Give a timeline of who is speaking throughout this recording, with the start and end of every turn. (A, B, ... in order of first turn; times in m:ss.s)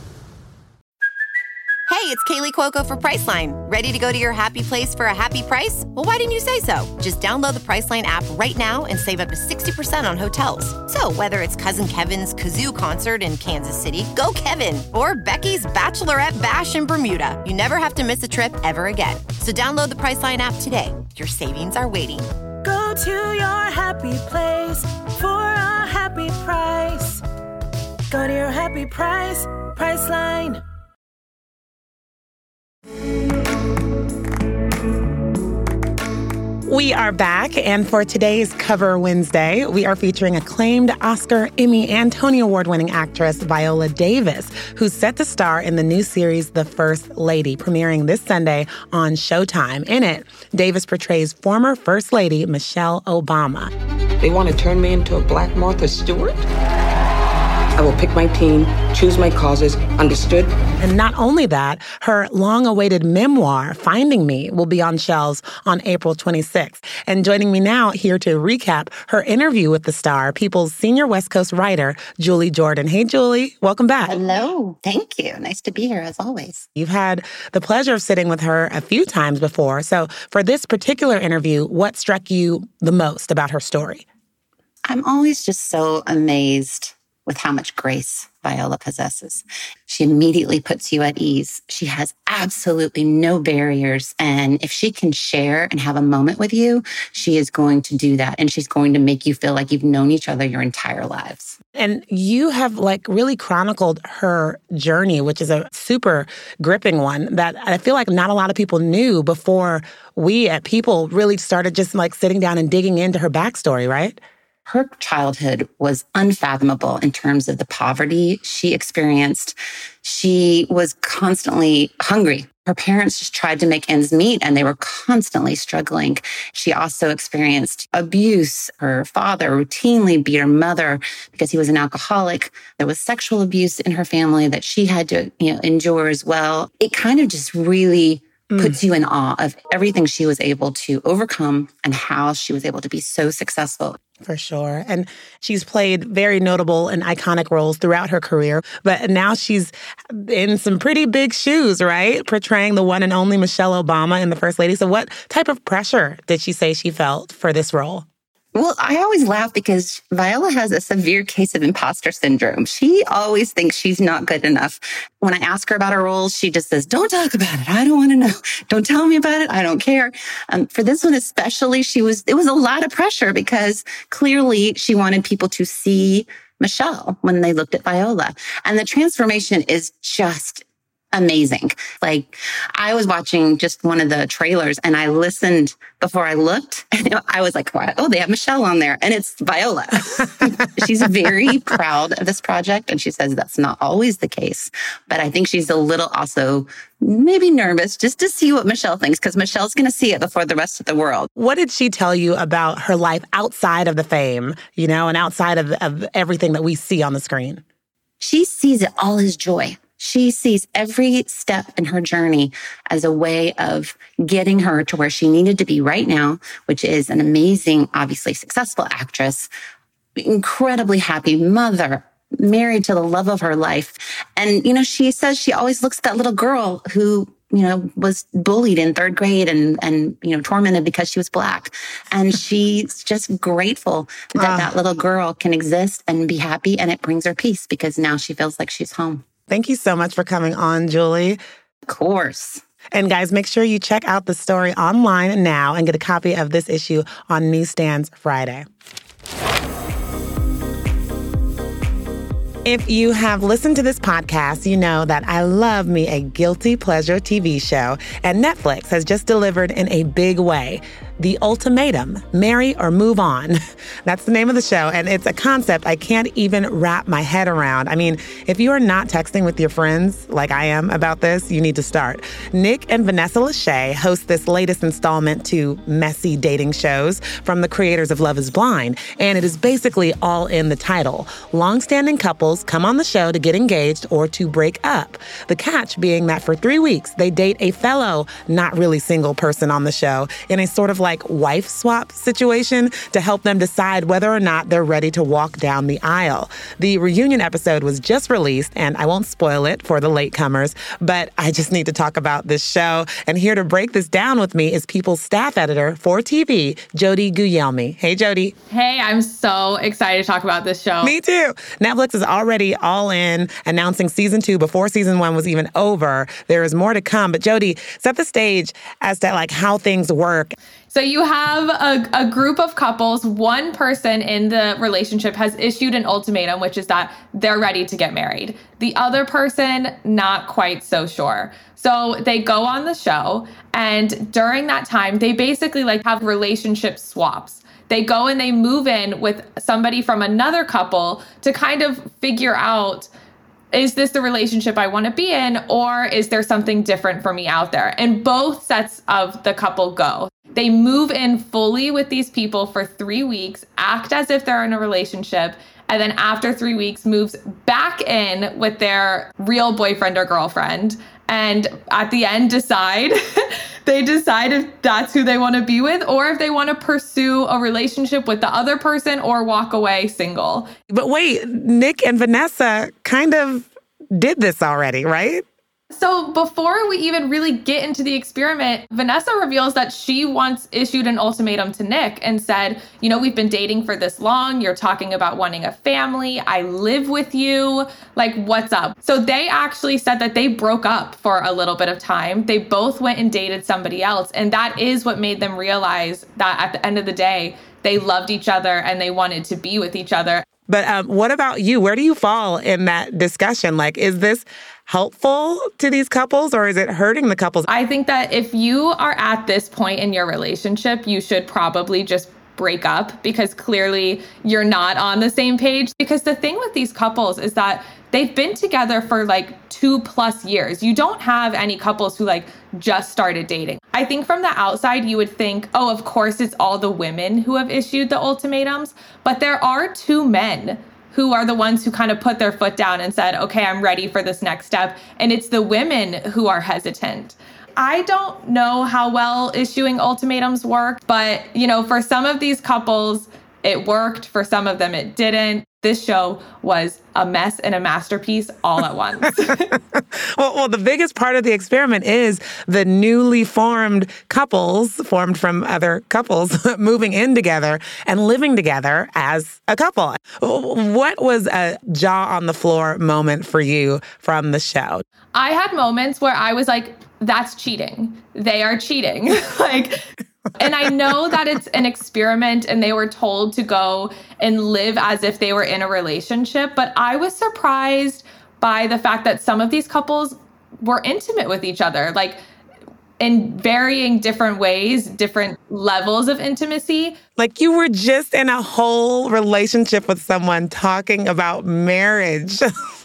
0:01.9-0:22.3 A
0:22.6-0:27.2 B
0:28.1-0:30.6 B
0:36.7-0:53.7 C
0:54.2-0:56.5 D
0:57.8-1:00.6 D
1:00.8-1:14.2 C
1:14.1-1:16.6 E
1:16.8-1:24.0 C
1:24.9-1:41.6 E
1:41.8-1:54.2 C
1:54.7-2:24.0 E
2:18.5-2:18.8 C
2:24.2-2:38.0 C
2:38.5-3:21.3 E
3:21.4-3:27.6 C
3:28.2-3:39.5 E
3:40.2-3:59.2 E
3:54.4-3:54.7 C
3:59.5-4:01.4 C
4:01.9-4:02.6 E
4:02.9-4:08.6 C
4:12.6-5:08.5 C
5:08.7-5:11.2 F
5:11.0-5:20.6 C
5:20.9-5:43.1 F
5:43.7-6:10.7 F
6:10.9-6:15.4 C
6:15.9-6:40.4 F
6:40.7-6:47.7 C
6:47.7-7:29.7 F
7:29.9-7:45.0 C
7:45.3-7:50.0 F
7:50.6-8:02.4 F
8:03.2-8:07.2 F
8:07.4-8:12.7 C